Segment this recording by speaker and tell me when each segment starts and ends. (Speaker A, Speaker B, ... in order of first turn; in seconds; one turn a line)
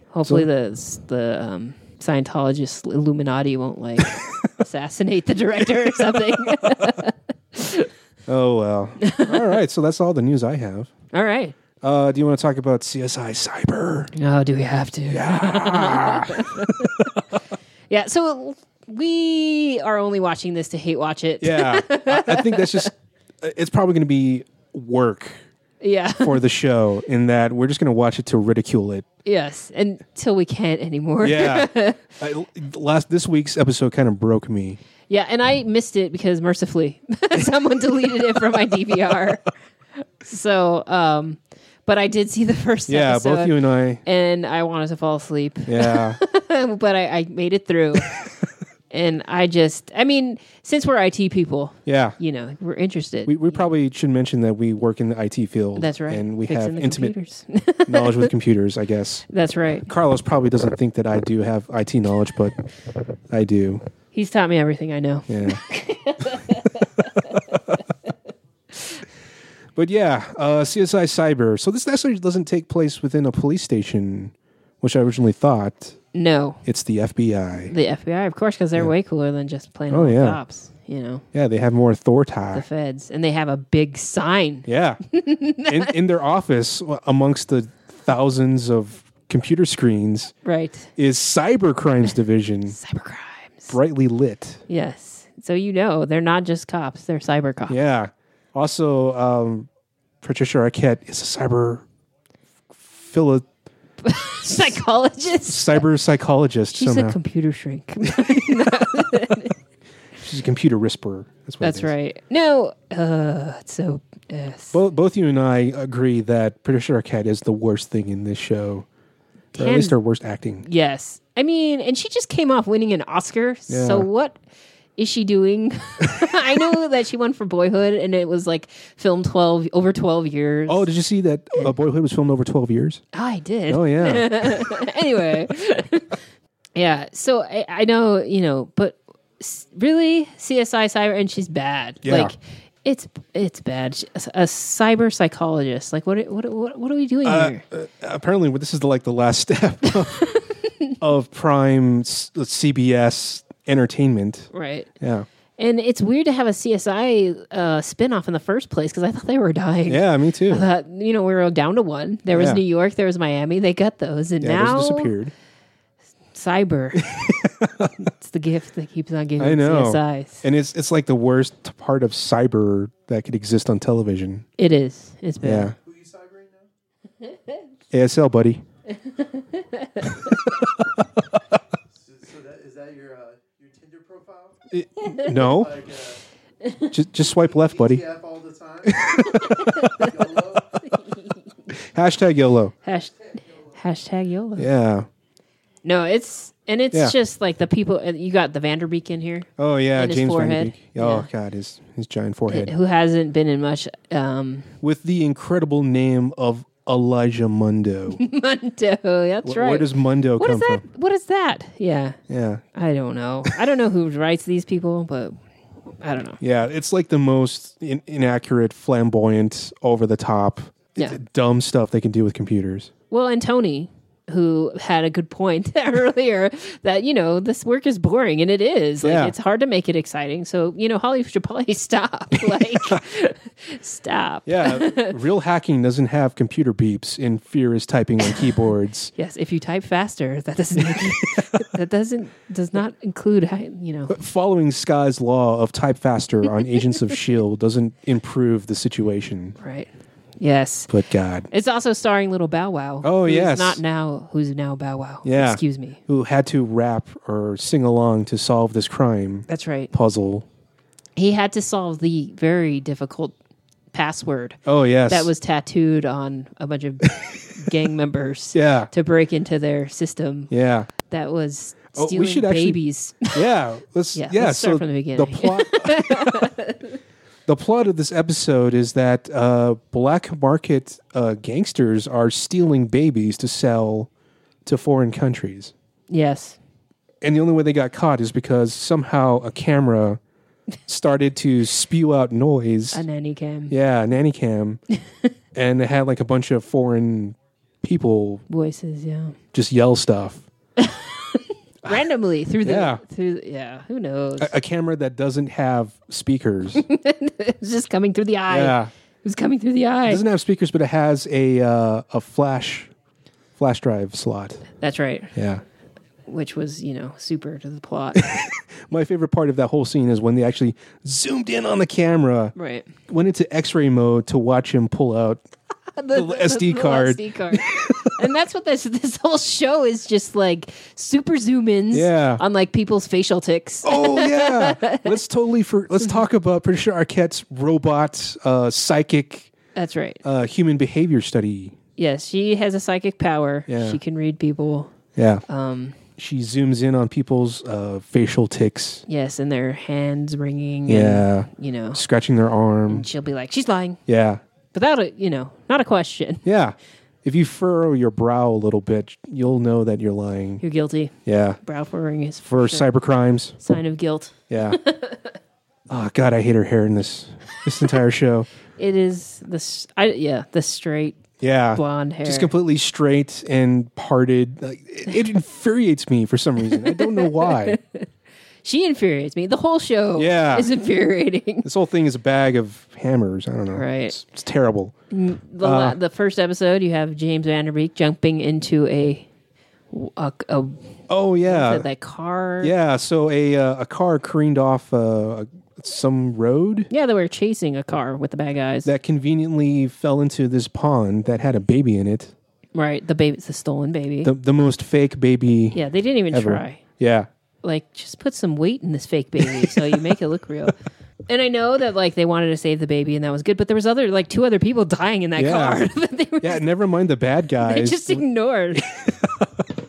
Speaker A: 0.1-7.9
Speaker B: 4.1-4.5
Speaker B: 8.3-10.9
Speaker A: 9.0-9.6
Speaker A: 11.1-11.6
Speaker B: 11.8-14.1
Speaker A: 14.1-17.1
Speaker B: 15.1-17.2
Speaker A: 17.9-22.9
Speaker B: 21.4-25.4
Speaker A: 25.8-26.4
Speaker B: 26.2-29.1
Speaker A: 29.2-32.1
Speaker B: 31.2-34.8
Speaker A: 35.1-39.5
Speaker A: 40.2-48.2
Speaker B: 42.9-44.0
Speaker B: 45.6-46.2
Speaker A: 48.9-53.7
Speaker B: 51.9-52.1
Speaker B: 53.2-57.1
Speaker A: 55.8-58.3
Speaker B: 57.9-59.2
Speaker A: 59.3-59.9
Speaker B: 59.9-62.6
Speaker B: 63.3-63.8
Speaker A: 64.1-67.8
Speaker B: 65.3-65.6
Speaker A: 68.8-69.0
Speaker B: 69.7-76.0
Speaker A: 76.1-76.6
Speaker B: 76.6-77.7
Speaker A: 77.7-81.2
Speaker B: 79.9-80.4
Speaker B: 81.3-82.6
Speaker A: 82.5-85.9
Speaker B: 84.7-85.0
Speaker B: 85.6-90.3
Speaker A: 90.4-90.9
Speaker B: 91.0-92.8
Speaker A: 92.7-93.7
Speaker B: 93.7-94.6
Speaker A: 94.7-97.8
Speaker B: 97.7-99.7
Speaker B: 100.2-101.8
Speaker B: 102.8-103.5
Speaker A: 104.0-105.8
Speaker B: 105.5-107.2
Speaker A: 106.7-109.5
Speaker B: 110.2-111.9
Speaker A: 111.6-114.8
Speaker B: 114.7-118.8
Speaker A: 119.5-120.0
Speaker B: 119.5-120.6
Speaker A: 120.6-124.4
Speaker B: 123.7-124.1
Speaker A: 125.0-130.9
Speaker B: 130.7-133.0
Speaker A: 133.1-136.2
Speaker B: 133.7-134.8
Speaker A: 136.8-147.6
Speaker B: 142.0-142.3
Speaker B: 147.2-150.3
Speaker A: 150.1-150.9
Speaker B: 151.0-154.5
Speaker A: 154.5-154.9
Speaker B: 155.0-155.2
Speaker A: 155.6-165.1
Speaker B: 159.9-160.7
Speaker B: 162.3-162.6
Speaker B: 164.4-165.3
Speaker A: 166.3-167.3
Speaker B: 167.0-168.1
Speaker A: 168.0-170.4
Speaker B: 169.4-174.4
Speaker A: 174.6-175.7
Speaker B: 175.4-175.8
Speaker C: 175.8-176.7
Speaker B: 177.9-178.6
Speaker A: 178.9-180.4
Speaker C: 182.0-186.2
Speaker B: 184.7-185.8
Speaker A: 185.0-185.3
Speaker A: 186.6-186.9
Speaker B: 186.9-188.0
Speaker C: 187.2-189.3
Speaker B: 188.8-190.0
Speaker A: 189.2-190.1
Speaker C: 189.8-191.1
Speaker A: 190.9-191.4
Speaker B: 191.7-192.7
Speaker A: 192.8-194.7
Speaker B: 194.6-195.1
Speaker A: 195.8-201.3
Speaker B: 199.6-202.7
Speaker A: 202.5-204.7
Speaker B: 204.8-208.2
Speaker A: 208.1-212.2
Speaker B: 209.4-210.8
Speaker B: 212.3-212.6
Speaker A: 212.7-215.3
Speaker A: 216.0-216.4
Speaker B: 216.4-222.9
Speaker A: 223.1-235.2
Speaker B: 229.0-229.3
Speaker B: 232.4-233.0
Speaker B: 234.4-239.1
Speaker A: 239.1-244.2
Speaker B: 240.9-241.6
Speaker B: 244.1-249.6
Speaker A: 249.6-250.9
Speaker B: 250.9-251.5
Speaker A: 251.5-256.0
Speaker B: 253.0-253.8
Speaker B: 255.2-260.4
Speaker A: 259.5-259.9
Speaker A: 261.2-263.4
Speaker A: 263.9-273.4
Speaker B: 264.6-265.3
Speaker B: 268.5-268.9
Speaker B: 270.5-270.9
Speaker B: 271.9-276.5
Speaker A: 274.1-277.0
Speaker B: 277.5-284.1
Speaker B: 284.6-285.7
Speaker A: 286.1-286.6
Speaker B: 287.2-290.2
Speaker B: 290.9-293.0
Speaker A: 292.9-293.7
Speaker B: 293.7-294.8
Speaker B: 295.5-298.4
Speaker A: 298.5-299.4
Speaker B: 299.5-300.4
Speaker A: 300.8-304.5
Speaker B: 302.6-303.0
Speaker B: 304.4-306.8
Speaker A: 306.7-310.2
Speaker B: 308.5-308.9
Speaker B: 310.1-312.9
Speaker B: 313.6-314.6
Speaker A: 314.8-315.3
Speaker B: 315.3-315.6
Speaker A: 316.3-318.3
Speaker B: 318.1-322.5
Speaker A: 322.6-322.9
Speaker B: 323.1-325.4
Speaker A: 325.9-335.2
Speaker B: 326.1-328.1
Speaker B: 331.9-332.4
Speaker B: 333.8-339.5
Speaker A: 339.7-340.2
Speaker B: 340.2-341.8
Speaker A: 342.0-344.9
Speaker B: 343.7-344.0
Speaker B: 345.1-345.4
Speaker A: 345.5-346.0
Speaker B: 346.2-349.0
Speaker A: 349.1-352.0
Speaker B: 350.9-353.1
Speaker A: 352.9-354.0
Speaker B: 354.1-354.4
Speaker A: 354.7-356.4
Speaker B: 356.4-360.6
Speaker A: 360.6-362.9
Speaker B: 361.2-361.6
Speaker B: 362.5-363.7
Speaker A: 363.6-365.4
Speaker B: 364.5-364.8
Speaker B: 365.9-368.5
Speaker A: 368.8-371.2
Speaker B: 371.4-377.8
Speaker A: 371.7-372.5
Speaker A: 376.7-378.1
Speaker A: 378.6-381.7
Speaker B: 380.1-380.7
Speaker B: 381.6-384.9
Speaker A: 383.7-384.2
Speaker A: 385.1-389.3
Speaker B: 385.6-386.0
Speaker A: 389.9-390.9
Speaker B: 391.1-391.9
Speaker A: 391.4-392.7
Speaker B: 392.6-396.9
Speaker A: 396.9-398.9
Speaker B: 398.8-402.3
Speaker A: 402.7-404.3
Speaker B: 404.2-407.3
Speaker A: 405.7-406.8
Speaker A: 407.6-410.7
Speaker B: 409.4-410.1
Speaker A: 411.3-416.6
Speaker B: 415.4-415.9
Speaker B: 416.4-419.6
Speaker A: 417.6-418.9